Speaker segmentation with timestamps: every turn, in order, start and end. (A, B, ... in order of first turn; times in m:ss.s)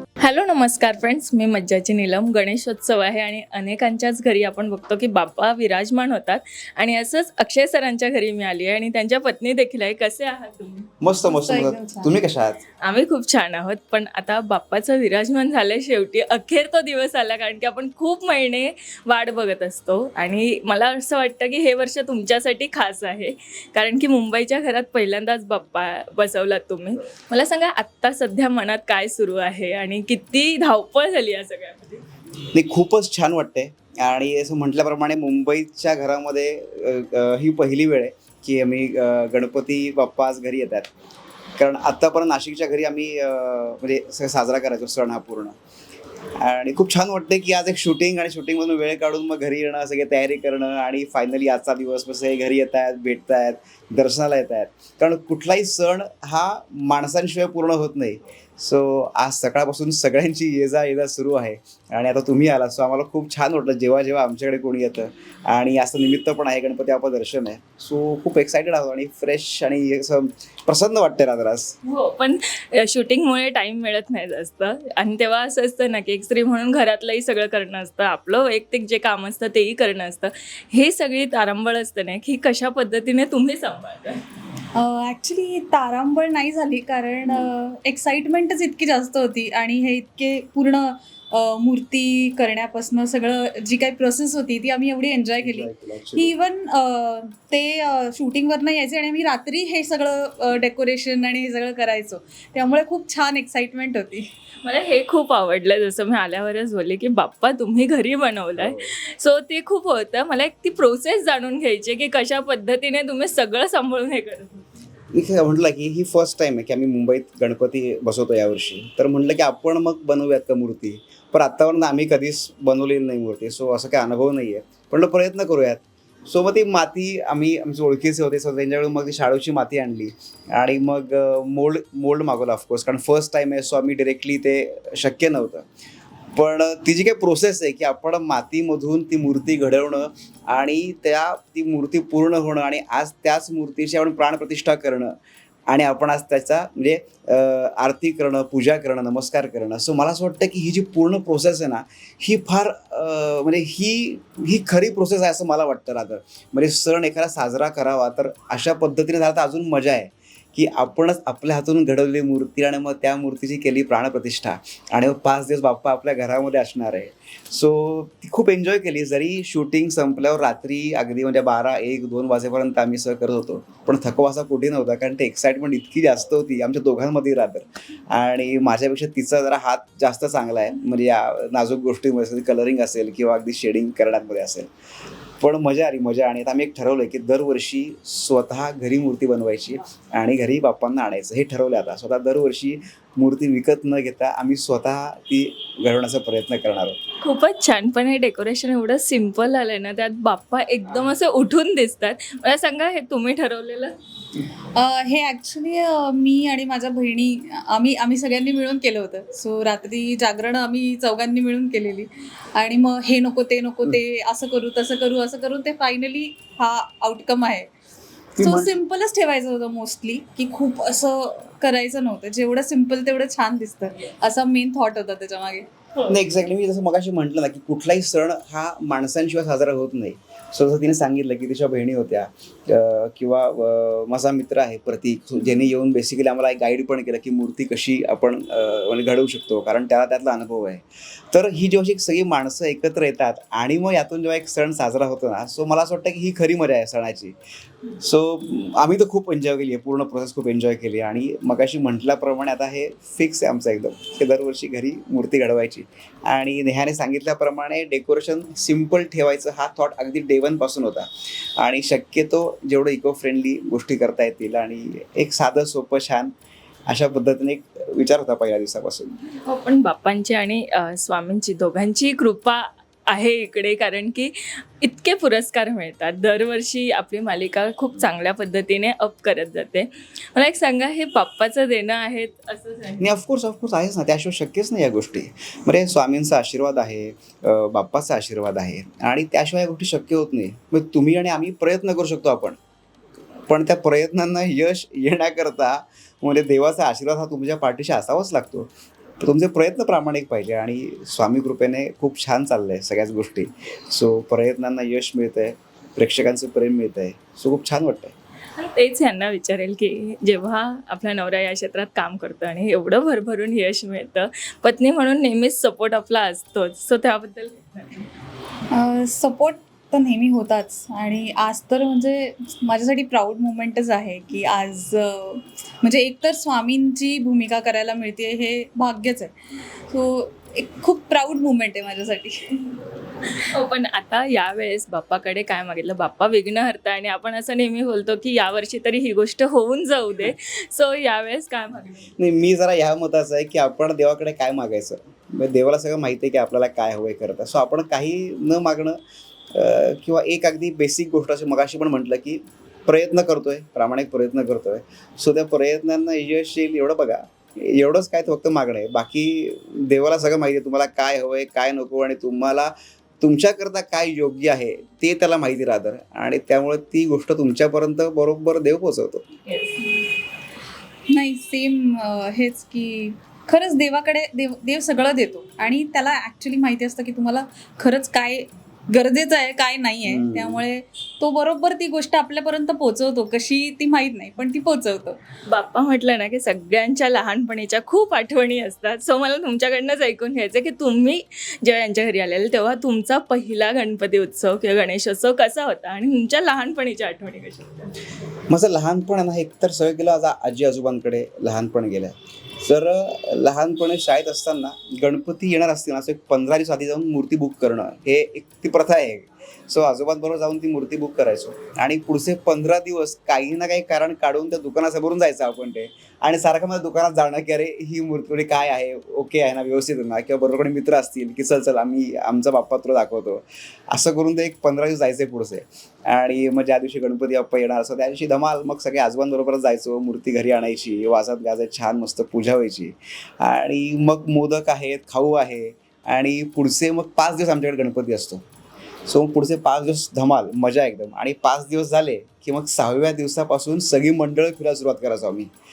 0:00.2-0:10.9 A
0:11.0-0:12.6 B
0:11.2-0:12.2 C
0:12.8-0:32.0 A
0:32.5-0:40.9 B
0:41.6-0:45.6 B
0:46.4-1:11.7 B
1:11.8-1:24.2 A
1:24.7-1:44.2 C
1:35.4-1:36.3 B
1:44.6-1:54.6 A
1:48.6-1:48.9 B
1:55.1-2:15.6 B
2:16.3-2:25.1 B
2:25.7-3:04.7 B
3:05.4-3:17.0 B
3:17.2-3:24.0 A
3:24.8-3:37.7 C
3:38.4-3:38.7 B
3:38.4-3:45.7 C
3:46.1-4:07.3 B
4:07.9-4:26.3 B
4:26.9-4:29.2 B
4:29.4-4:43.1 A
4:43.0-4:52.6 B
4:53.5-5:08.1 B
5:08.6-5:18.1 A
5:18.7-5:29.3 C
5:29.9-5:32.6 C
5:33.5-5:42.1 A
5:42.2-5:49.0 B
5:49.5-6:09.2 B
6:09.4-6:09.9 A
6:11.1-6:25.2 C
6:20.1-6:20.6 B
6:25.5-6:37.9 A
6:38.5-7:18.4 B
7:19.1-7:25.5 B